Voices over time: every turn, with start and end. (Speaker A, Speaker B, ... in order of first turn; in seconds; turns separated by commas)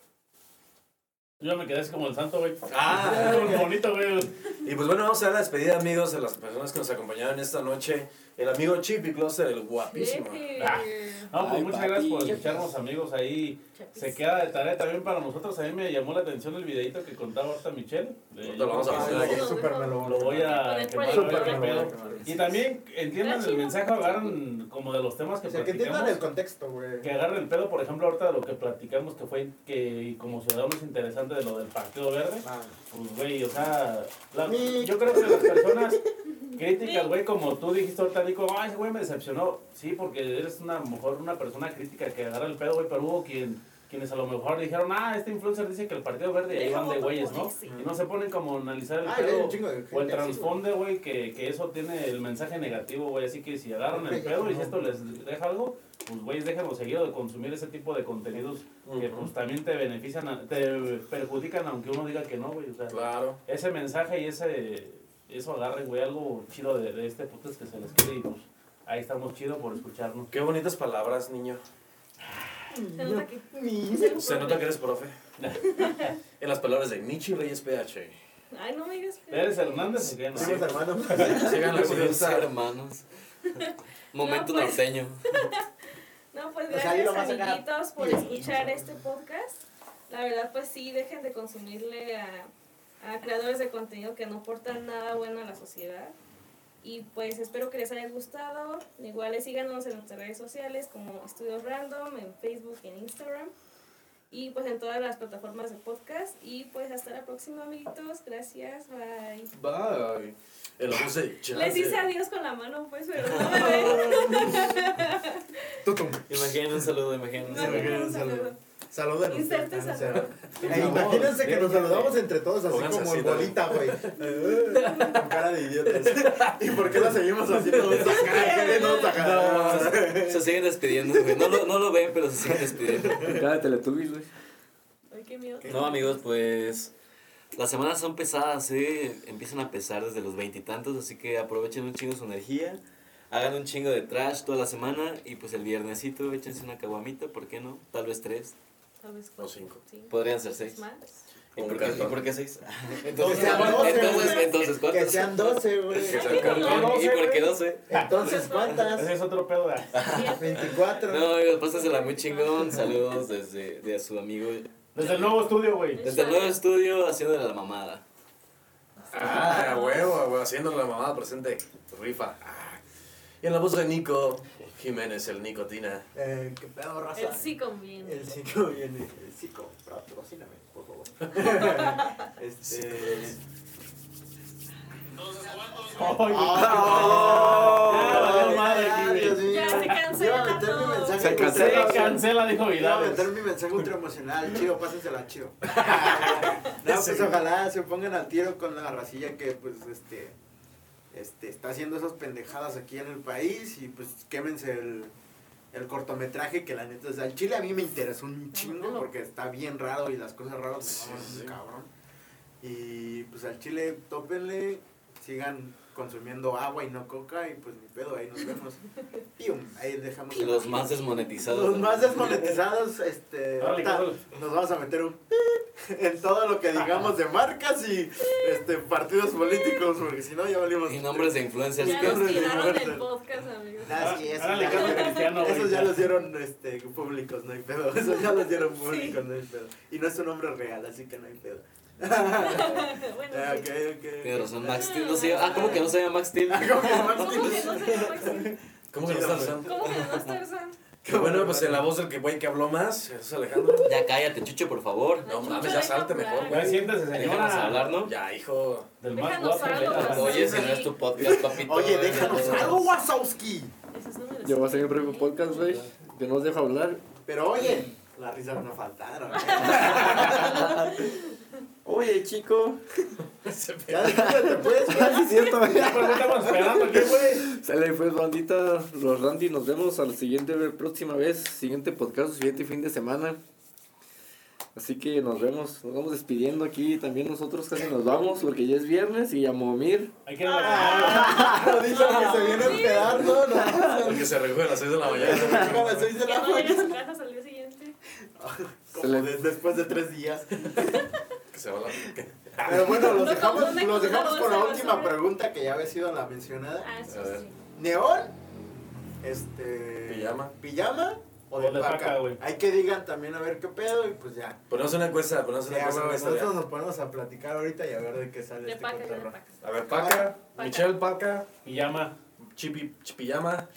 Speaker A: 1.4-4.3, Speaker B: 2.7-3.7, Speaker B: 4.5-10.6, Speaker C: 9.8-11.3, Speaker A: 10.6-26.2, Speaker D: 11.3-12.7, Speaker C: 13.7-14.2, Speaker B: 18.4-19.6, Speaker E: 18.9-22.6, Speaker C: 18.9-22.6, Speaker C: 23.1-24.3, Speaker E: 25.4-27.1, Speaker A: 27.0-70.3, Speaker E: 32.4-32.8, Speaker E: 34.4-36.0, Speaker C: 36.5-37.1, Speaker C: 46.5-47.8, Speaker E: 47.6-47.9, Speaker E: 49.0-50.6, Speaker E: 53.9-55.0, Speaker B: 58.8-59.3, Speaker B: 62.9-63.4, Speaker B: 70.3-71.6, Speaker A: 72.2-72.6, Speaker E: 72.7-74.5, Speaker C: 72.9-74.8, Speaker B: 74.1-75.1, Speaker A: 75.4-76.2, Speaker C: 75.7-76.2, Speaker B: 76.4-78.2, Speaker C: 78.5-79.8, Speaker A: 79.3-81.4, Speaker B: 80.3-82.5, Speaker E: 80.3-81.7, Speaker F: 81.2-83.0, Speaker C: 83.5-84.8, Speaker F: 84.1-85.5, Speaker C: 85.3-85.6, Speaker C: 86.3-96.2, Speaker E: 86.7-88.9, Speaker C: 96.8-103.5, Speaker C: 104.3-109.5, Speaker B: 109.5-112.0, Speaker C: 111.5-115.6, Speaker F: 113.2-114.5, Speaker E: 113.4-114.7, Speaker E: 115.8-116.9, Speaker F: 116.3-118.1, Speaker C: 117.4-118.6, Speaker E: 117.5-130.5, Speaker C: 119.3-120.6, Speaker A: 120.5-122.0, Speaker F: 120.6-121.5, Speaker B: 120.7-121.3, Speaker B: 122.7-125.3, Speaker C: 124.7-125.2, Speaker B: 125.9-130.0, Speaker C: 127.9-129.2, Speaker F: 129.5-133.4, Speaker E: 131.1-131.6, Speaker E: 132.4-133.4, Speaker D: 133.2-134.3, Speaker C: 135.1-136.0, Speaker E: 135.6-136.1, Speaker F: 135.6-136.9, Speaker F: 137.5-142.8, Speaker F: 143.3-148.5, Speaker C: 149.0-151.2, Speaker B: 149.4-149.8, Speaker F: 150.1-150.8, Speaker B: 151.6-152.4, Speaker F: 151.6-157.9, Speaker E: 153.1-156.6, Speaker A: 153.2-154.1, Speaker C: 153.4-154.5, Speaker B: 155.9-156.9, Speaker C: 156.0-158.9, Speaker A: 156.5-157.1, Speaker E: 157.9-159.1, Speaker A: 157.9-159.9, Speaker F: 159.9-165.4, Speaker C: 159.9-161.0, Speaker E: 160.1-161.3, Speaker C: 161.6-163.2, Speaker A: 164.9-166.1, Speaker C: 165.9-166.6, Speaker F: 166.0-168.0, Speaker B: 169.1-172.8, Speaker C: 169.2-170.1, Speaker B: 173.4-176.1, Speaker E: 176.1-183.4, Speaker C: 177.1-178.4, Speaker C: 181.3-182.2, Speaker B: 182.6-183.4, Speaker A: 185.8-189.6, Speaker E: 186.2-200.3, Speaker D: 186.5-188.5, Speaker C: 189.4-191.4, Speaker D: 191.1-192.2, Speaker A: 191.4-193.3, Speaker B: 195.8-197.4, Speaker C: 196.3-196.6, Speaker E: 201.1-205.1, Speaker E: 205.7-211.9, Speaker C: 208.5-209.1, Speaker B: 210.8-211.5, Speaker E: 212.6-218.8, Speaker E: 219.3-233.1, Speaker F: 220.3-222.6, Speaker A: 223.6-224.2, Speaker C: 228.2-228.5, Speaker F: 230.8-232.8, Speaker C: 231.8-235.3, Speaker E: 233.8-245.9, Speaker A: 233.9-236.1, Speaker C: 238.0-239.2, Speaker C: 242.3-243.8, Speaker F: 244.2-247.4, Speaker C: 244.7-245.9, Speaker E: 246.5-249.9, Speaker C: 246.9-248.6, Speaker B: 248.9-249.7, Speaker C: 249.6-250.8, Speaker E: 251.0-251.9, Speaker B: 251.1-253.9, Speaker C: 253.8-254.0, Speaker F: 253.8-255.3, Speaker C: 255.2-256.7, Speaker B: 255.2-256.8, Speaker A: 256.4-257.9, Speaker E: 256.5-256.9, Speaker F: 257.1-258.1, Speaker B: 258.0-258.9, Speaker A: 259.0-260.6, Speaker C: 259.1-260.9, Speaker F: 259.7-262.9, Speaker E: 260.3-263.7, Speaker C: 263.9-265.8, Speaker D: 264.4-267.0, Speaker A: 265.6-265.9, Speaker E: 267.2-270.7, Speaker C: 269.3-271.4, Speaker D: 270.4-270.9, Speaker D: 271.8-272.8, Speaker B: 273.4-274.3, Speaker E: 273.9-276.8, Speaker D: 274.0-276.8, Speaker C: 274.9-275.5, Speaker A: 275.7-277.5, Speaker D: 277.3-283.4, Speaker D: 284.7-290.1, Speaker A: 290.2-291.6, Speaker C: 290.4-293.4, Speaker E: 290.6-294.3, Speaker D: 293.4-294.0, Speaker B: 294.0-296.1, Speaker E: 295.0-297.0, Speaker D: 295.2-295.7, Speaker C: 296.1-297.9, Speaker E: 298.4-301.1, Speaker D: 299.0-299.3, Speaker B: 301.5-303.1, Speaker E: 302.6-306.9, Speaker C: 302.9-305.2, Speaker C: 306.8-307.6, Speaker B: 307.1-307.4, Speaker E: 307.7-308.4, Speaker E: 309.2-314.6, Speaker B: 310.1-310.5, Speaker A: 311.5-312.4, Speaker B: 314.7-316.6, Speaker E: 315.6-319.3, Speaker C: 318.6-319.7, Speaker B: 319.6-321.5, Speaker E: 319.9-320.3, Speaker C: 320.5-321.0, Speaker A: 321.6-322.1, Speaker B: 322.5-323.7